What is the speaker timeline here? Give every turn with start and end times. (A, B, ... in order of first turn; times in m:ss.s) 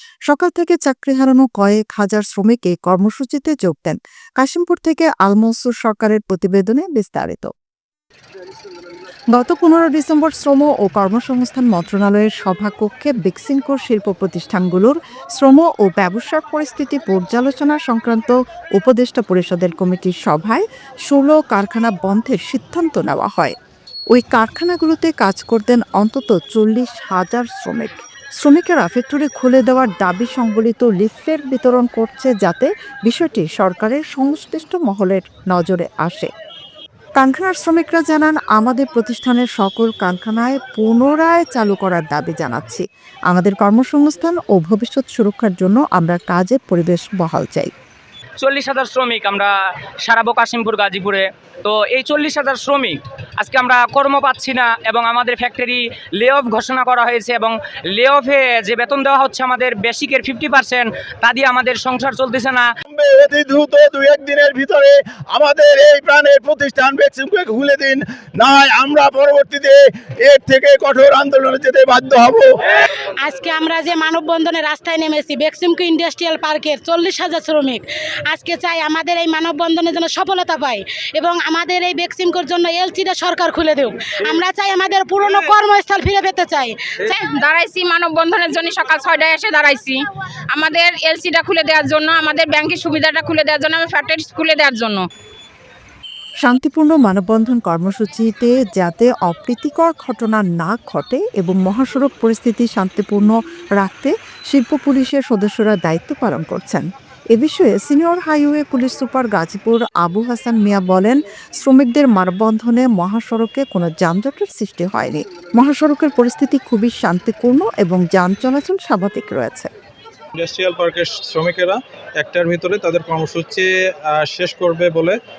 0:00.3-0:07.5 A
0:09.3-0:23.6 A
0:24.1-0:36.3 A
0:37.2-0:47.7 A
0:48.4-0:49.5 B
0:50.0-1:02.7 B
1:02.9-1:12.6 C
1:12.8-1:27.2 D
1:27.1-1:30.0 E
1:30.5-1:35.1 E
1:36.4-1:59.7 A
2:00.4-2:05.2 F